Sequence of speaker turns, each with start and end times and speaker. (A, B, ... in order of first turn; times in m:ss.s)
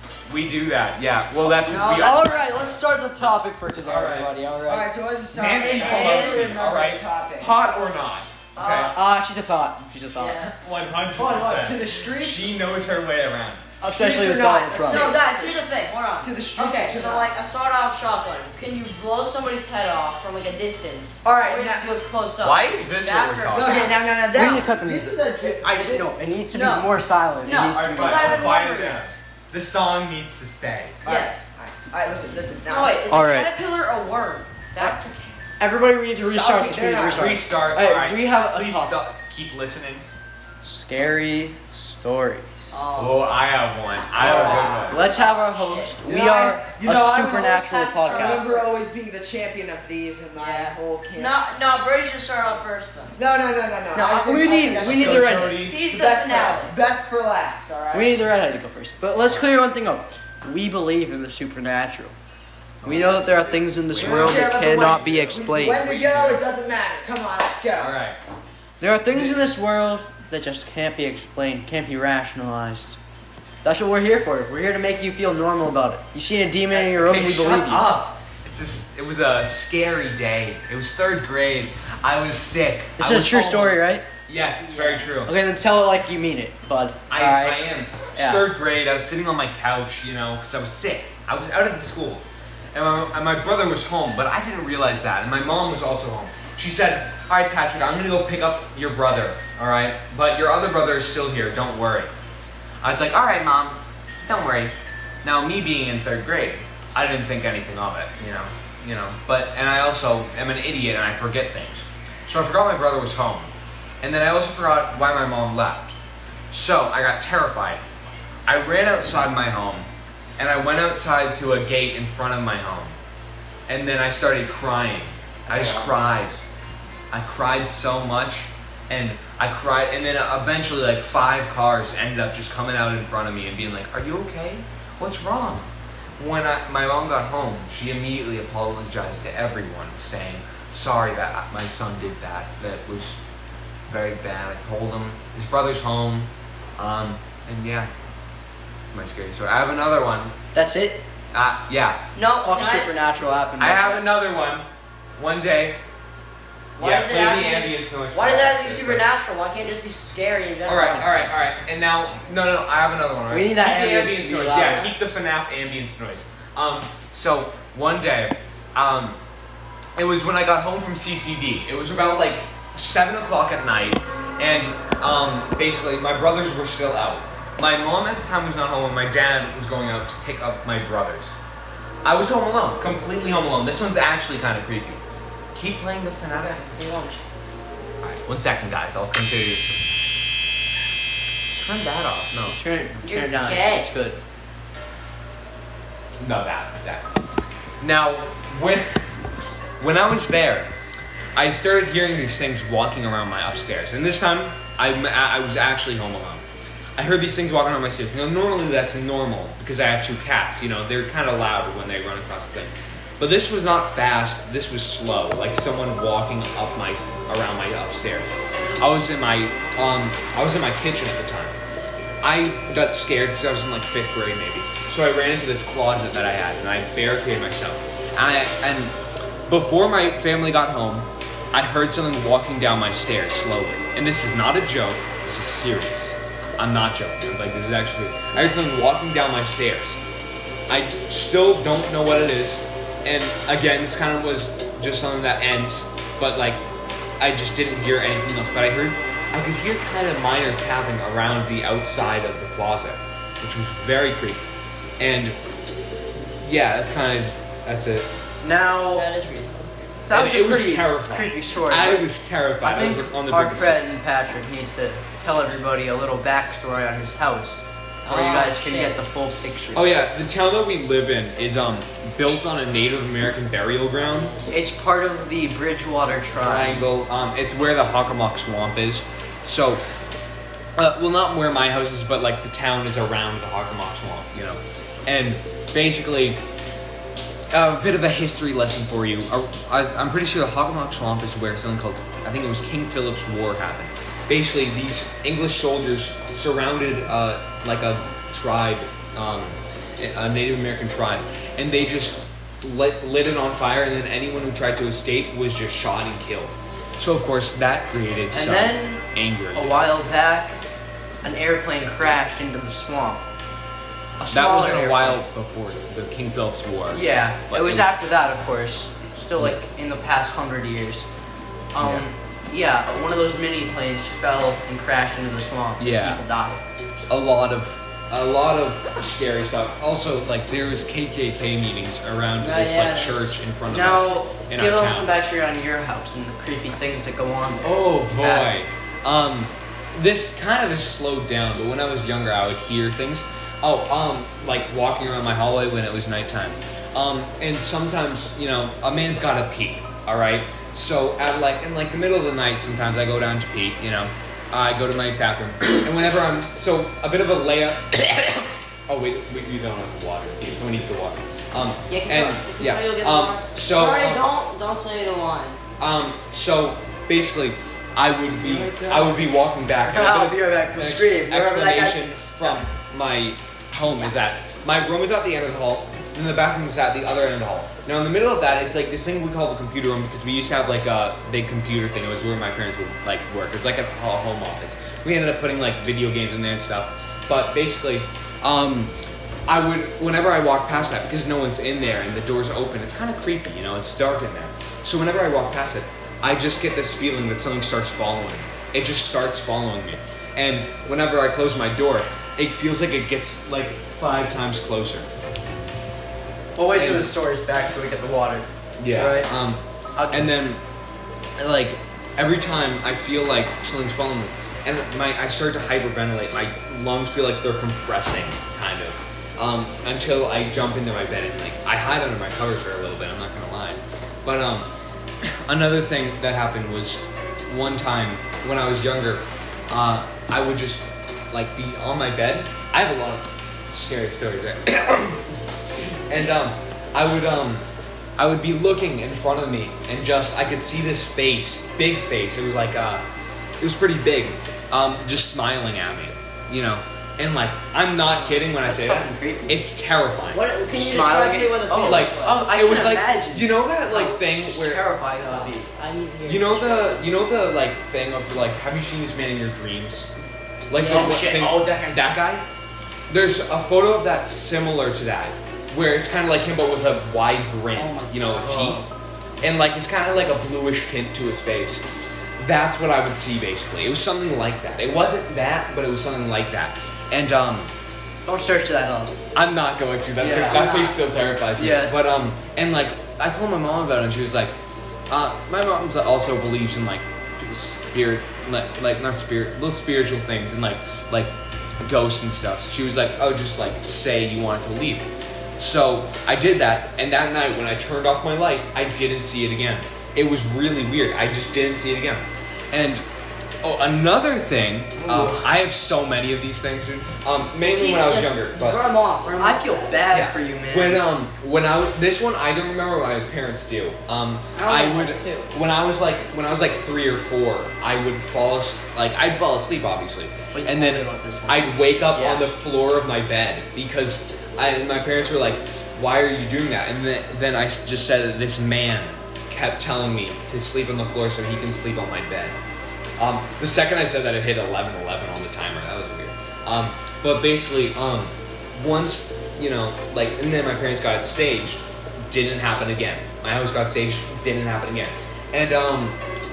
0:00.3-0:02.4 A
0:01.6-0:02.6 B
0:01.8-0:04.9 C
0:03.8-0:04.3 A
0:04.7-0:07.6 D
0:05.3-0:09.0 A
0:05.6-0:06.6 B
0:08.6-0:09.0 B
0:08.6-0:10.5 C
0:10.2-0:10.5 B
0:10.5-0:13.6 A
0:11.1-0:12.5 D
0:13.8-0:15.2 C
0:13.9-0:15.6 D
0:14.9-0:24.6 B
0:16.2-0:17.3 D
0:21.2-0:21.9 D
0:22.4-0:24.0 A
0:23.5-0:26.2 D
0:24.3-0:28.6 C
0:26.5-0:29.1 B
0:27.7-0:31.0 A
0:31.0-0:31.5 B
0:31.0-0:33.0 D
0:32.7-0:35.1 B
0:33.1-0:33.5 C
0:35.6-0:39.0 C
0:36.2-0:37.4 D
0:37.1-0:40.1 A
0:40.6-0:42.8 C
0:42.7-0:43.2 B
0:42.9-0:45.1 A
0:44.2-0:45.0 D
0:44.2-0:48.6 C
0:44.9-0:45.9 B
0:46.0-0:51.5 D
0:47.4-0:48.7 B
0:50.4-0:53.2 B
0:53.2-0:58.2 D
0:53.9-0:55.6 C
0:54.8-0:55.8 A
0:55.6-0:56.8 B
0:57.9-1:02.2 C
0:59.2-0:59.6 A
1:02.8-1:06.4 A
1:02.8-1:05.8 C
1:04.0-1:08.0 D
1:07.8-1:08.2 A
1:08.8-1:13.0 C
1:09.1-1:09.4 A
1:13.6-1:17.9 C
1:16.7-1:25.4 A
1:23.0-1:24.1 C
1:24.7-1:25.0 D
1:25.2-1:28.4 C
1:27.1-1:42.1 A
1:42.8-1:56.0 A
1:56.5-1:57.8 A
1:58.5-2:03.0 A
2:03.7-2:06.4 A
2:05.6-2:05.9 C
2:07.1-2:23.2 A
2:23.9-2:27.9 A
2:28.9-2:30.4 A
2:30.5-2:31.0 C
2:31.3-2:32.0 A
2:32.2-2:33.0 B
2:32.4-2:34.1 C
2:33.6-2:35.8 A
2:36.8-2:41.2 B
2:36.8-2:39.0 A
2:40.7-2:49.2 A
2:43.3-2:44.9 C
2:44.5-2:44.9 B
2:50.0-3:01.3 A
3:02.0-3:05.0 A
3:05.5-3:06.8 A
3:06.3-3:07.2 B
3:08.0-3:09.8 A
3:11.6-3:12.6 A
3:12.5-3:14.2 C
3:13.1-3:13.9 B
3:16.2-3:17.0 A
3:17.8-3:19.1 A
3:19.8-3:20.7 A
3:21.4-3:26.4 A
3:27.0-3:41.6 A
3:42.2-3:49.0 A
3:49.5-4:00.0 A
4:00.7-4:06.6 A
4:07.2-4:14.4 A
4:15.0-4:15.4 A
4:16.4-4:18.1 A
4:18.4-4:19.1 C
4:18.9-4:20.0 B
4:20.0-4:29.9 C
4:20.1-4:24.0 A
4:28.0-4:29.0 B
4:29.7-4:34.4 A
4:34.5-4:36.9 C
4:36.4-4:39.8 A
4:40.8-4:46.4 A
4:47.5-5:09.8 A
5:08.3-5:10.6 C
5:11.2-5:13.2 C
5:14.2-5:15.2 C
5:14.3-5:17.9 A
5:16.9-5:21.1 C
5:21.7-5:26.6 C
5:21.8-5:22.1 A
5:25.8-5:26.2 A
5:27.1-5:35.1 A
5:32.4-5:33.4 B
5:33.7-5:38.6 C
5:37.6-6:04.3 A
6:01.9-6:05.6 B
6:05.8-6:28.9 A
6:08.4-6:09.2 C
6:09.8-6:12.1 C
6:29.5-6:45.1 A
6:46.6-6:49.3 C
6:46.7-6:47.1 A
6:48.8-6:50.6 A
6:50.0-6:50.3 C
6:51.4-7:04.7 A
7:05.2-7:15.4 A
7:16.1-7:17.6 A
7:18.2-7:23.1 A
7:23.6-7:30.5 A
7:28.2-7:29.6 C
7:30.3-7:32.5 B
7:30.7-7:35.7 C
7:31.8-7:34.8 A
7:35.2-7:37.1 B
7:36.2-7:40.1 A
7:40.7-7:42.5 A
7:40.8-7:42.0 C
7:40.9-7:41.3 B
7:43.1-7:48.9 A
7:47.8-7:48.7 B
7:48.4-7:48.9 C
7:49.4-7:51.8 A
7:52.4-7:57.7 A
7:58.3-7:59.2 C
7:59.3-8:04.6 A
8:00.2-8:00.7 C
8:00.5-8:01.0 B
8:01.6-8:02.0 C
8:05.1-8:23.0 A
8:23.6-8:28.8 A
8:25.0-8:25.4 C
8:27.7-8:30.0 B
8:29.4-8:31.1 C
8:30.1-8:52.6 A
8:34.6-8:35.5 B
8:40.5-8:42.5 C
8:53.2-9:06.2 A